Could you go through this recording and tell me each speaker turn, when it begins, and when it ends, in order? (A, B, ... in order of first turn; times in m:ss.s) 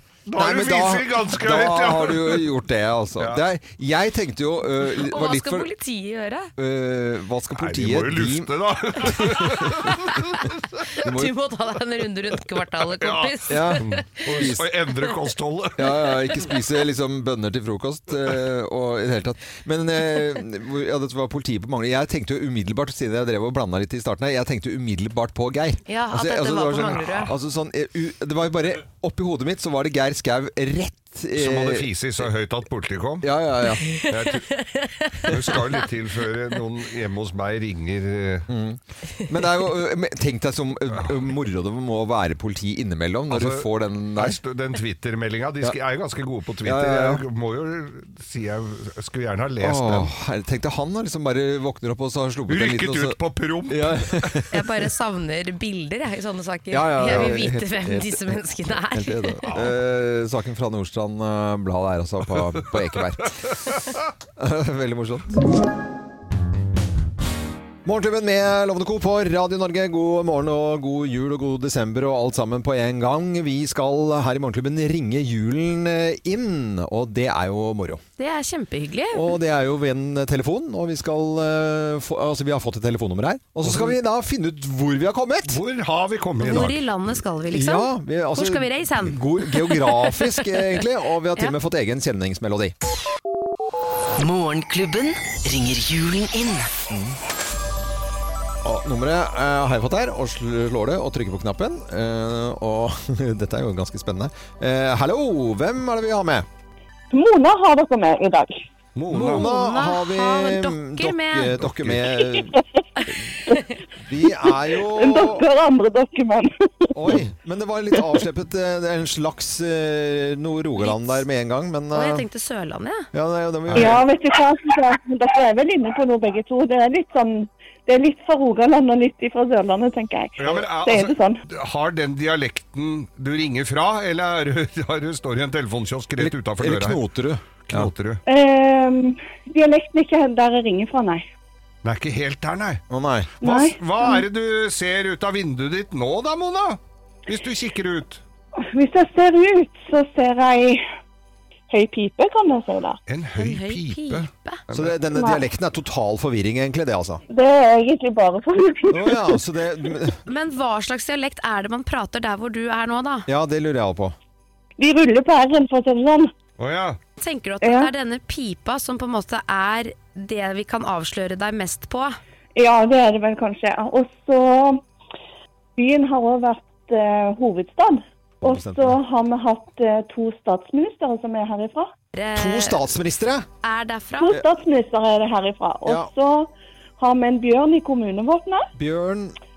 0:00.3-0:02.4 A
0:00.3-0:05.7 B
0:04.8-0:06.5 C
0:06.6-0:09.9 B
0:07.6-0:10.8 A
0:11.0-0:14.2 C
0:11.0-0:11.3 B
0:12.9-0:16.3 A
0:13.5-0:14.7 B
0:15.8-0:31.9 B
0:25.9-0:27.3 C
0:31.4-0:33.3 A
0:33.2-0:33.9 B
0:33.8-0:35.6 C
0:34.1-0:34.5 A
0:35.3-0:38.5 A
0:38.5-0:44.4 B
0:43.3-0:50.1 A
0:46.6-0:47.2 B
0:49.6-0:54.6 B
0:52.5-0:54.4 A
0:54.5-0:59.5 C
0:56.7-1:03.5 B
0:57.0-0:57.4 A
1:04.4-1:05.4 B
1:07.8-1:18.0 B
1:18.2-1:19.3 C
1:19.1-1:25.6 B
1:23.6-1:23.9 A
1:25.5-1:26.8 A
1:26.4-1:30.6 C
1:27.5-1:32.7 B
1:34.2-1:36.7 D
1:36.9-1:37.2 B
1:38.6-1:46.4 B
1:47.1-1:48.6 E
1:49.0-1:49.5 A
1:49.1-1:51.5 C
1:49.1-1:52.5 B
1:51.6-1:52.0 A
1:52.3-1:52.6 E
1:53.4-1:53.7 E
1:54.0-1:55.4 B
1:54.2-1:57.2 E
1:56.9-2:02.2 B
2:00.8-2:01.2 C
2:01.9-2:03.1 C
2:03.1-2:04.0 B
2:03.7-2:04.0 A
2:03.7-2:11.4 E
2:10.4-2:17.0 A
2:16.2-2:17.9 B
2:17.6-2:18.2 A
2:18.2-2:21.3 E
2:21.8-2:22.8 A
2:22.9-2:23.3 B
2:23.4-2:24.2 E
2:23.4-2:28.2 A
2:28.7-2:30.8 E
2:31.7-2:33.0 E
2:33.1-2:34.9 A
2:33.4-2:34.6 C
2:34.7-2:37.2 B
2:35.1-2:35.5 E
2:37.3-2:39.4 E
2:38.9-2:40.2 B
2:40.3-2:43.3 C
2:43.3-2:44.1 B
2:44.8-2:46.3 E
2:46.6-2:47.0 A
2:47.2-2:52.2 C
2:47.6-2:47.9 E
2:52.6-2:54.8 E
2:55.8-3:01.9 E
2:58.4-2:59.0 B
3:02.1-3:02.8 C
3:02.3-3:03.4 B
3:03.6-3:04.4 C
3:04.2-3:08.7 E
3:05.8-3:06.1 B
3:08.8-3:09.4 B